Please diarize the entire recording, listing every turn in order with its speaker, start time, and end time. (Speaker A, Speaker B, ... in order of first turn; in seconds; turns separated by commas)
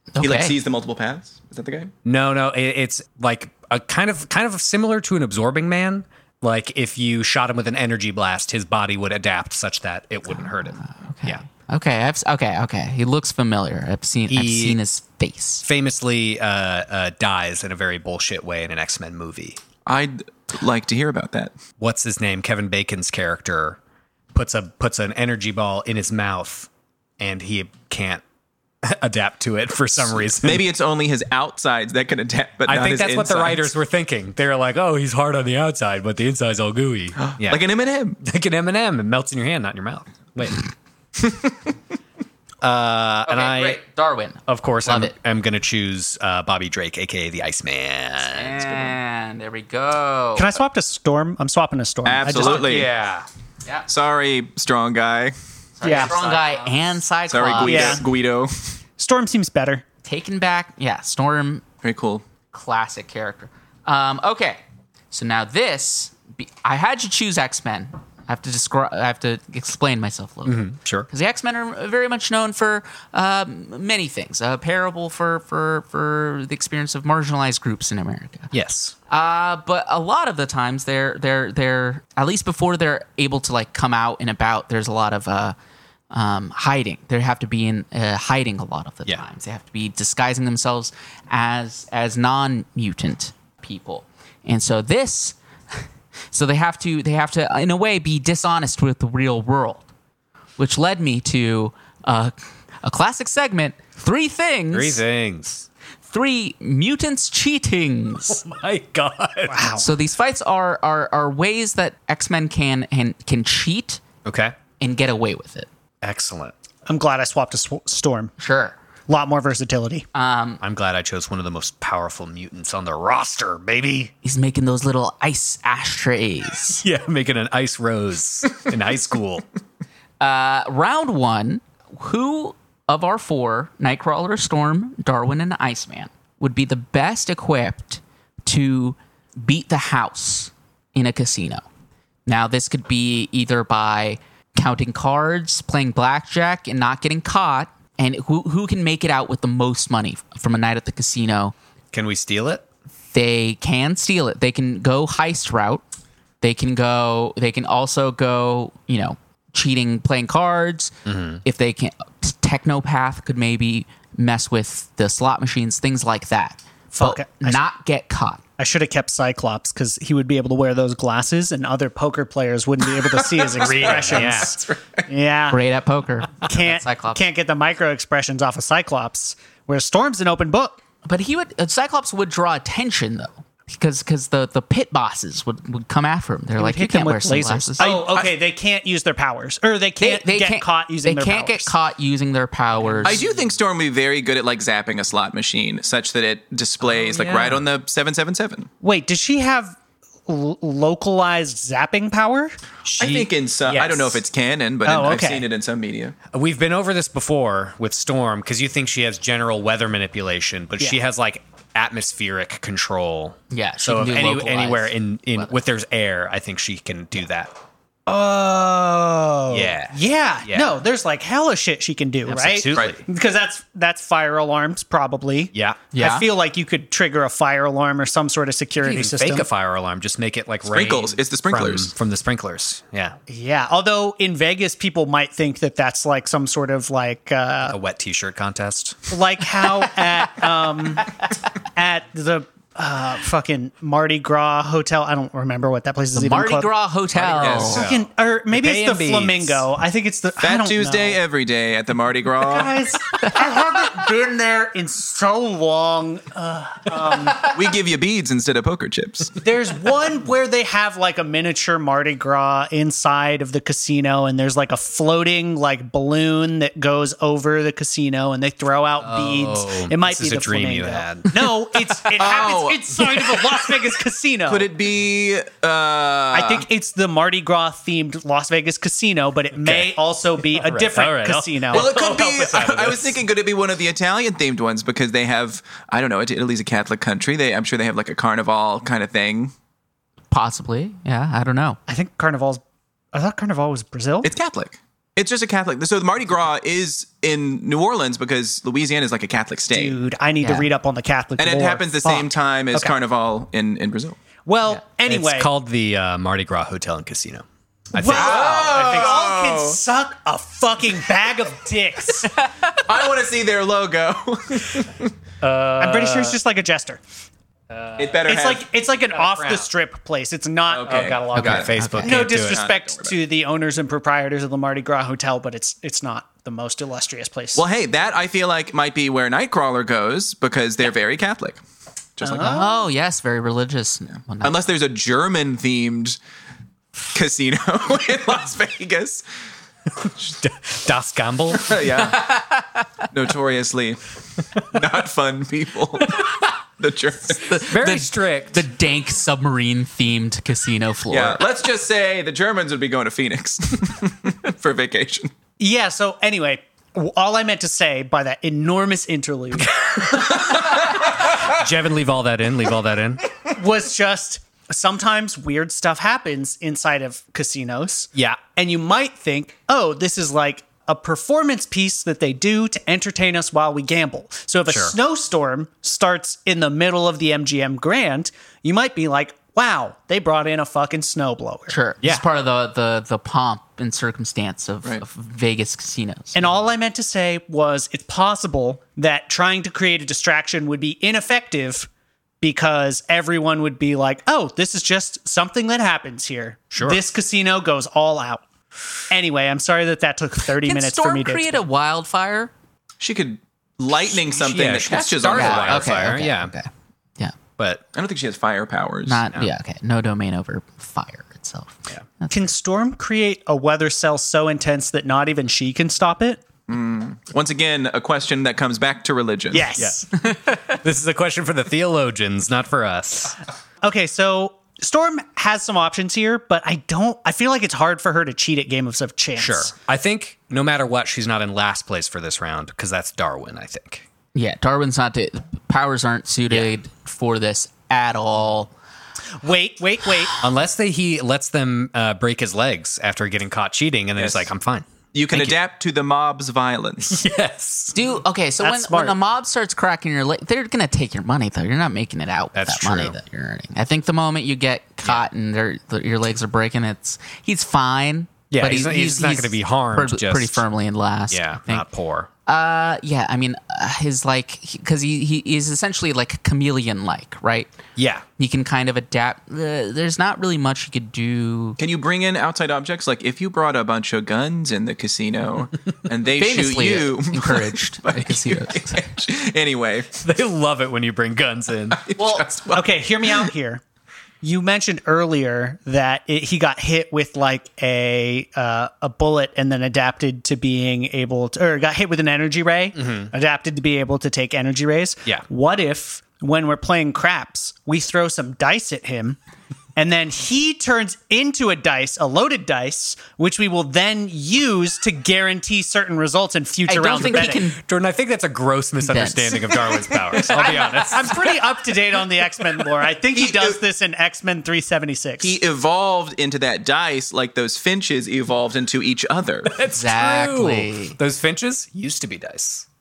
Speaker A: 0.1-0.5, Speaker B: 0.2-1.9, Speaker C: 2.0-11.4, Speaker A: 10.3-15.6, Speaker C: 14.3-14.8, Speaker C: 15.6-19.6, Speaker B: 19.9-21.5, Speaker C: 21.8-23.8, Speaker C: 24.3-28.2, Speaker C: 28.8-30.6, Speaker B: 30.0-33.7, Speaker C: 32.6-37.6, Speaker B: 37.2-38.2, Speaker C: 38.2-40.6, Speaker B: 41.2-41.7, Speaker C: 42.6-43.8, Speaker A: 43.2-45.1, Speaker C: 44.5-48.7, Speaker A: 48.3-50.5, Speaker D: 50.4-52.8, Speaker B: 52.0-52.9, Speaker C: 52.2-53.2, Speaker B: 53.9-55.3, Speaker A: 55.8-58.0, Speaker D: 55.8-56.3, Speaker B: 55.9-56.3, Speaker B: 57.3-58.7, Speaker D: 57.6-58.0, Speaker D: 59.0-59.8, Speaker A: 60.0-61.6, Speaker B: 61.8-62.2, Speaker A: 62.5-78.5, Speaker C: 70.4-71.1, Speaker C: 78.5-78.9, Speaker A: 79.1-85.5, Speaker A: 86.1-95.8, Speaker A: 96.3-99.8, Speaker A: 100.6-105.0, Speaker C: 104.7-105.7, Speaker A: 106.1-108.4, Speaker C: 108.3-109.6, Speaker D: 109.5-109.9, Speaker A: 109.8-114.0, Speaker C: 114.2-114.5, Speaker A: 114.8-115.7, Speaker C: 116.0-116.5, Speaker D: 116.8-118.3, Speaker A: 118.4-118.7, Speaker D: 119.1-120.0, Speaker A: 120.1-120.6, Speaker C: 120.6-124.1, Speaker A: 124.2-126.8, Speaker C: 126.8-129.4, Speaker A: 130.2-141.6, Speaker A: 142.2-151.5, Speaker C: 151.9-152.6, Speaker A: 153.1-155.8, Speaker A: 156.4-160.9, Speaker C: 161.1-161.4, Speaker A: 161.4-168.4, Speaker D: 166.9-167.6, Speaker D: 168.6-175.6, Speaker B: 173.0-175.0, Speaker C: 173.6-174.5, Speaker A: 175.5-177.2, Speaker D: 176.4-180.8, Speaker A: 181.0-187.9, Speaker D: 186.6-191.7, Speaker B: 187.8-188.3, Speaker A: 190.0-193.2, Speaker B: 193.0-198.7, Speaker C: 196.8-197.6, Speaker D: 198.8-202.5, Speaker C: 202.8-204.2, Speaker B: 203.0-206.2, Speaker D: 204.8-205.5, Speaker C: 206.3-217.5, Speaker A: 213.5-215.5, Speaker D: 218.1-229.4, Speaker C: 219.5-220.7, Speaker C: 222.2-223.0, Speaker A: 225.9-226.2, Speaker C: 228.8-233.2, Speaker B: 230.7-231.9, Speaker D: 233.3-237.8, Speaker C: 237.7-239.1, Speaker D: 239.1-241.1, Speaker D: 241.7-246.7, Speaker A: 246.1-247.8, Speaker C: 247.2-249.6, Speaker B: 247.3-247.8, Speaker D: 247.7-251.2, Speaker B: 250.4-252.8, Speaker D: 252.4-257.5, Speaker B: 257.4-259.4, Speaker D: 259.4-274.7, Speaker C: 269.0-271.5, Speaker B: 272.2-273.6, Speaker B: 274.5-276.6, Speaker D: 276.3-281.9, Speaker C: 279.5-279.9, Speaker C: 280.4-283.2, Speaker B: 281.7-289.5, Speaker A: 290.3-291.8, Speaker D: 291.9-292.6, Speaker D: 293.1-294.3, Speaker B: 294.2-299.9, Speaker D: 299.7-302.9, Speaker A: 300.4-300.7, Speaker B: 301.4-304.2, Speaker D: 304.4-305.5, Speaker C: 305.1-308.9, Speaker D: 307.9-312.3, Speaker B: 308.1-309.8, Speaker B: 312.8-315.1, Speaker C: 315.4-316.4, Speaker D: 315.8-317.0, Speaker C: 317.7-318.3, Speaker B: 318.0-318.6, Speaker D: 318.2-321.1, Speaker C: 319.1-319.7, Speaker B: 320.7-321.7, Speaker C: 320.9-322.6, Speaker A: 321.3-322.2, Speaker D: 322.0-327.6, Speaker B: 322.2-323.1, Speaker B: 327.5-331.6, Speaker B: 332.2-332.5, Speaker D: 332.2-332.9, Speaker A: 332.3-334.7, Speaker B: 334.4-336.2, Speaker B: 337.1-339.2, Speaker C: 340.0-341.8, Speaker B: 341.5-342.4, Speaker A: 342.1-342.8, Speaker B: 343.1-346.2, Speaker B: 346.8-347.5, Speaker A: 347.4-351.4, Speaker C: 347.6-348.6, Speaker B: 351.1-355.3, Speaker D: 355.6-359.7, Speaker C: 359.6-363.2, Speaker B: 360.1-361.4, Speaker D: 363.5-381.7, Speaker C: 368.1-368.4, Speaker C: 374.7-374.9, Speaker A: 381.7-386.5, Speaker D: 386.3-391.9, Speaker D: 392.4-398.4, Speaker C: 396.7-397.0, Speaker D: 399.1-401.6, Speaker A: 400.6-402.5, Speaker B: 403.0-406.0, Speaker C: 404.1-406.5, Speaker A: 404.8-407.3, Speaker C: 407.6-407.8, Speaker B: 407.9-409.2, Speaker A: 409.1-412.5, Speaker D: 412.3-416.4, Speaker B: 416.7-419.7, Speaker D: 419.5-420.1, Speaker C: 419.8-423.4, Speaker D: 423.8-429.7, Speaker C: 429.4-434.0, Speaker A: 434.3-438.7, Speaker D: 439.4-440.3, Speaker C: 440.4-445.5, Speaker B: 444.2-444.5, Speaker B: 445.1-447.2, Speaker C: 447.1-447.9, Speaker A: 447.9-461.9, Speaker D: 448.6-449.1, Speaker C: 452.5-453.2, Speaker C: 458.5-460.6, Speaker C: 461.3-462.3, Speaker A: 462.4-467.7, Speaker C: 467.9-468.2, Speaker A: 468.4-471.8, Speaker B: 471.8-480.2, Speaker A: 476.3-479.1, Speaker C: 480.2-482.0, Speaker B: 481.9-483.5, Speaker A: 482.1-482.6, Speaker D: 482.7-483.8, Speaker D: 484.4-499.4, Speaker C: 492.9-493.3, Speaker D: 499.9-507.6, Speaker A: 506.9-507.8, Speaker C: 507.2-511.6, Speaker A: 509.0-509.9, Speaker D: 510.5-515.6, Speaker B: 513.3-513.7, Speaker B: 515.4-519.7, Speaker C: 519.7-522.9, Speaker A: 519.9-521.1